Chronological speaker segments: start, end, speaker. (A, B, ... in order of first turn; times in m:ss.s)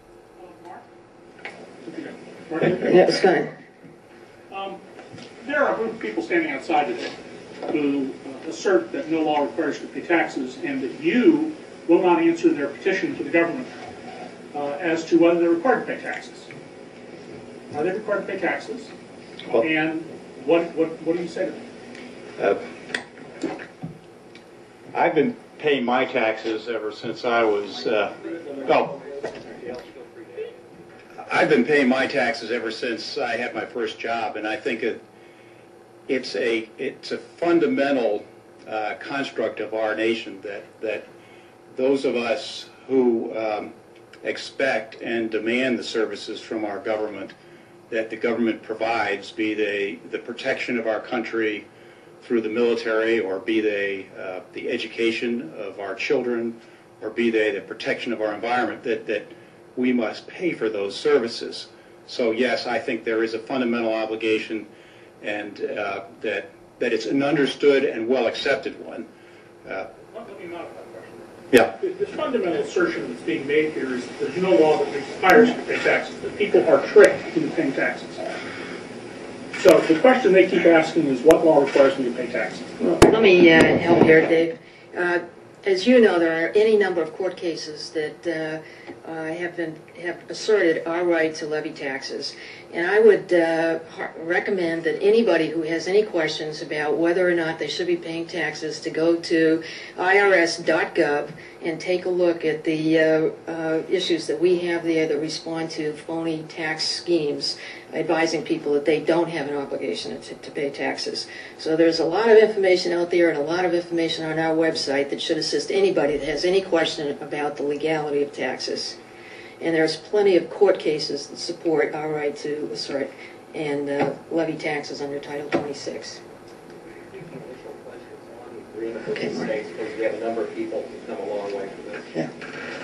0:00.4-0:00.8 A
0:01.8-0:03.4 A
0:02.6-0:03.5 B
0:04.5-0:04.8 A
0:05.4-0:07.2 A
0:07.7-0:13.7 A
0:14.5-0:16.5 A
0:17.7-0:18.9 A
0:19.5-0:21.6 A
0:24.9-0:28.1 C
0:28.0-0:30.6 D
0:28.6-0:28.9 C
0:31.2-0:35.0 C
0:36.1-0:41.0 C
0:41.7-0:43.7 C
0:44.2-0:47.3 C
0:47.9-0:51.6 C
0:52.2-1:04.6 C
1:05.2-1:09.0 C
1:10.1-1:18.3 A
1:19.5-1:22.7 A
1:22.8-1:59.0 B
1:59.6-2:06.2 B
2:07.1-2:12.2 D
2:09.2-2:09.4 B